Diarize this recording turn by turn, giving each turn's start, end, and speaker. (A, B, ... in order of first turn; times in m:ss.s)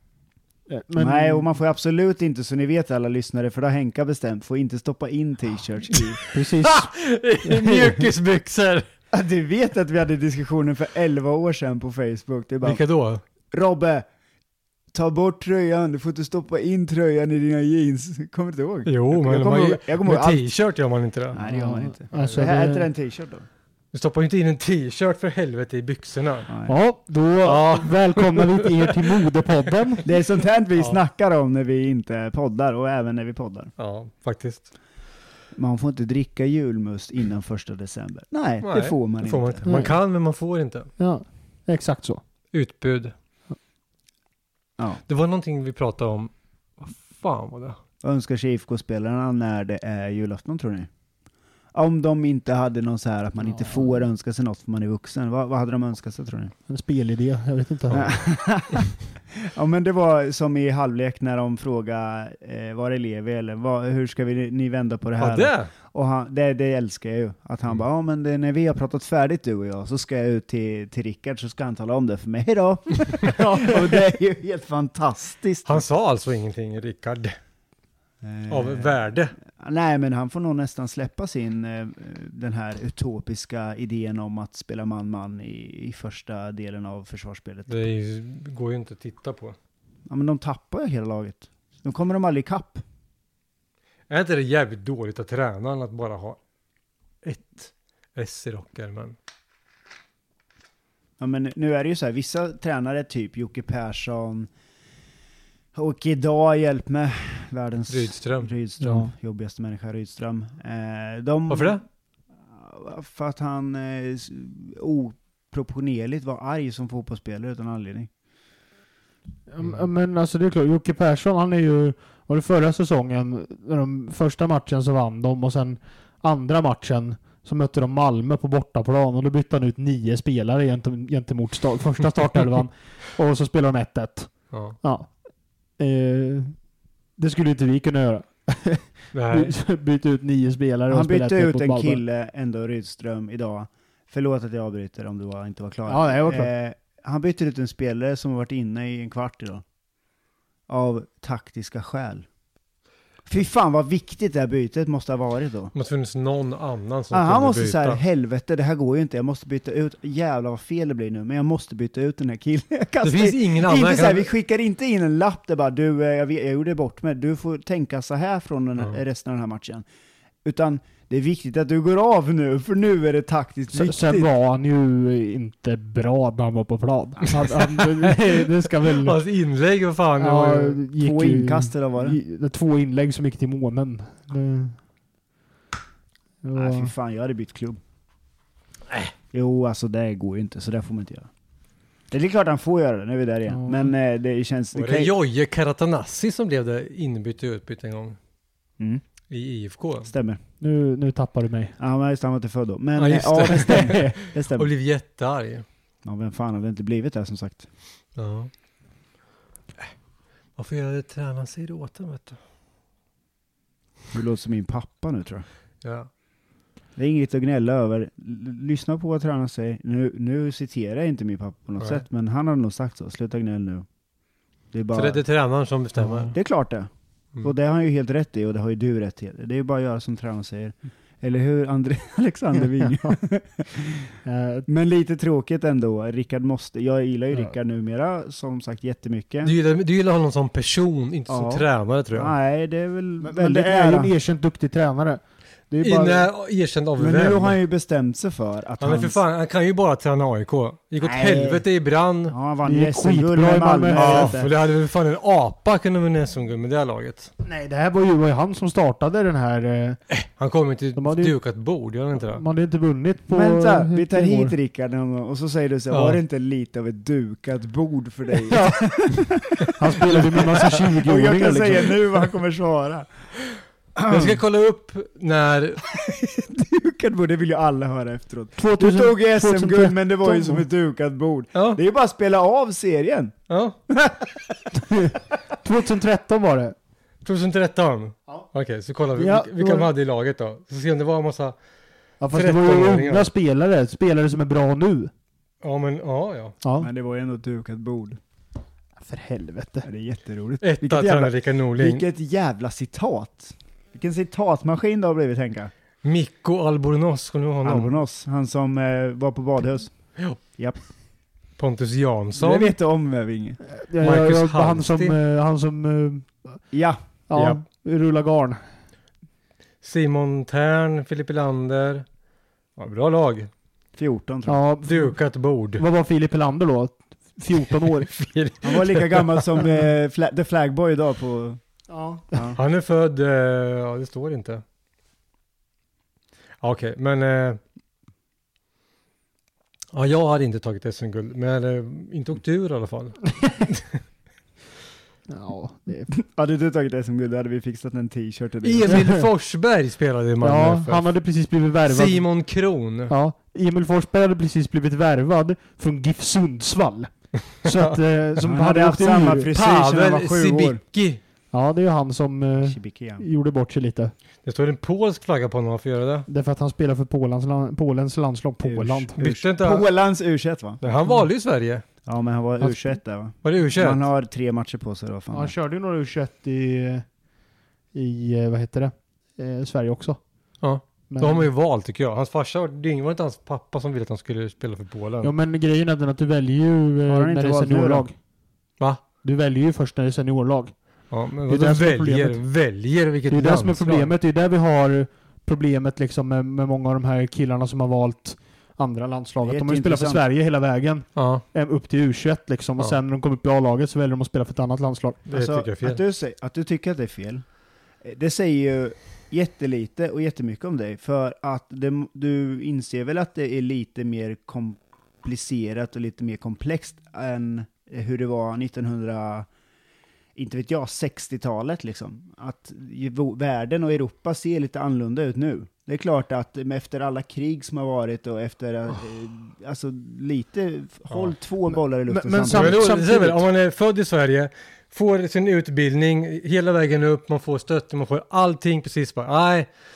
0:00.7-0:01.5 A
0:01.0-0:06.2 B
0:05.9-0:08.8 C
0:06.3-0:06.9 A
0:07.6-0:08.0 B
0:09.1-0:12.8 B
0:12.6-0:13.2 C
0:13.5-0:14.0 B
0:14.9-0:20.4 B
0:18.8-0:21.4 C
0:21.3-0:23.4 B
0:21.5-0:22.9 A
0:22.1-0:22.4 C
0:23.9-0:26.5 C
0:26.5-0:26.7 B
0:26.6-0:30.0 A
0:27.4-0:29.1 C
0:30.0-0:33.7 B
0:33.8-0:34.7 C
0:35.5-0:39.8 B
0:38.6-0:40.9 C
0:39.6-0:39.9 A
0:41.0-0:42.2 A
0:42.5-0:43.1 C
0:45.1-0:47.8 C
0:48.0-0:50.9 B
0:51.7-0:56.5 B
0:53.5-0:53.8 A
0:56.7-0:58.2 A
0:57.9-1:15.8 B
1:05.2-1:05.7 C
1:13.3-1:13.7 A
1:15.6-1:17.4 C
1:18.2-1:27.8 B
1:18.5-1:19.3 C
1:27.7-1:29.6 C
1:30.1-1:32.8 B
1:34.1-1:36.4 C
1:37.2-1:39.2 C
1:41.2-1:44.5 B
1:45.7-1:51.8 B
1:47.9-1:48.5 C
1:48.8-1:49.1 A
1:51.5-1:51.8 C
1:52.4-1:58.1 B
1:59.5-2:15.1 A
2:14.5-2:14.8 C
2:15.8-2:16.6 A
2:17.2-2:22.0 A
2:19.1-2:19.5 C
2:20.9-2:29.6 B
2:25.9-2:26.5 A
2:30.7-2:32.2 B
2:33.3-2:35.7 B
2:35.7-2:38.0 C
2:37.1-2:49.8 B
2:43.0-2:44.3 C
2:50.4-2:54.3 B
2:53.7-2:59.2 A
2:57.8-3:00.8 C
3:00.2-3:04.8 A
3:01.0-3:02.2 B
3:06.4-3:06.9 A
3:06.5-3:07.8 B
3:09.3-3:11.3 B
3:12.1-3:15.1 B
3:13.5-3:13.9 A
3:14.7-3:18.2 C
3:18.8-3:19.0 B
3:19.3-3:20.1 C
3:20.0-3:20.4 B
3:20.6-3:21.8 A
3:21.8-3:24.7 B
3:23.0-3:25.6 C
3:26.0-3:27.6 B
3:28.2-3:28.5 C
3:30.6-3:32.4 C
3:34.1-3:35.4 B
3:35.8-3:36.1 C
3:37.0-3:43.8 B
3:44.7-3:45.2 B
3:44.9-3:46.3 C
3:46.0-3:46.3 A
3:46.3-3:46.9 B
3:47.4-3:54.1 B
3:54.2-3:54.7 A
3:54.7-3:59.5 B
3:59.4-4:02.3 C
4:01.3-4:04.1 B
4:03.2-4:06.2 A
4:05.8-4:07.6 C
4:07.0-4:09.2 B
4:08.8-4:12.3 C
4:11.0-4:11.6 B
4:12.3-4:14.5 B
4:12.6-4:14.4 A
4:13.9-4:17.3 C
4:17.4-4:20.0 A
4:20.1-4:22.4 C
4:20.9-4:21.3 A
4:22.3-4:24.5 A
4:23.3-4:33.1 B
4:25.9-4:26.2 C
4:28.5-4:31.9 A
4:34.0-4:34.4 B
4:34.1-4:35.9 C
4:35.9-4:43.3 B
4:38.6-4:40.6 A
4:41.5-4:41.8 C
4:43.5-4:43.8 C
4:43.9-4:44.4 B
4:44.8-4:46.8 A
4:47.2-4:51.5 C
4:49.2-4:49.9 A
4:52.2-4:55.1 A
4:52.3-4:53.3 C
4:55.6-4:56.6 C
4:56.6-4:56.9 A
4:56.8-4:58.2 B
4:59.0-4:59.9 A
4:59.8-5:05.7 B
5:00.6-5:02.0 C
5:06.0-5:07.9 C
5:07.6-5:10.8 B
5:11.6-5:12.7 C
5:12.4-5:13.6 B
5:13.7-5:16.6 A
5:14.0-5:15.2 C
5:16.7-5:17.0 B
5:17.3-5:18.6 A
5:17.3-5:17.6 C
5:19.8-5:22.0 C
5:22.8-5:23.5 C
5:24.0-5:24.6 B
5:24.5-5:25.1 A
5:24.8-5:25.8 C
5:25.8-5:28.1 A
5:28.0-5:29.4 C
5:28.6-5:31.6 B
5:31.9-5:32.3 A
5:32.3-5:32.6 B
5:32.5-5:34.6 C
5:36.6-5:37.6 C
5:39.9-5:43.9 C
5:45.3-5:46.1 A
5:46.1-5:49.0 B
5:48.6-5:51.0 C
5:48.9-5:49.3 A
5:50.4-5:52.2 A
5:51.9-5:53.1 C
5:53.1-5:57.1 A
5:57.6-5:59.5 A
5:57.6-5:58.0 C
5:58.4-6:00.8 B
5:59.5-6:01.2 C
6:01.5-6:04.1 A
6:02.6-6:03.2 B
6:04.4-6:06.3 C
6:06.3-6:09.2 A
6:08.6-6:10.8 B
6:09.2-6:09.8 C
6:10.8-6:11.8 C
6:12.0-6:15.5 B
6:13.4-6:14.0 C
6:15.3-6:17.0 A
6:17.9-6:20.2 A
6:20.6-6:25.3 C
6:21.1-6:21.5 A
6:25.2-6:28.1 A
6:27.1-6:28.1 B
6:29.2-6:30.7 A
6:31.1-6:34.1 C
6:31.5-6:32.4 A
6:33.3-6:45.2 A
6:39.4-6:40.2 B
6:41.2-6:41.4 C
6:45.3-6:46.0 C
6:45.3-6:47.4 B
6:48.0-6:59.5 B
7:00.4-7:12.8 B
7:12.1-7:13.4 A
7:12.5-7:19.7 C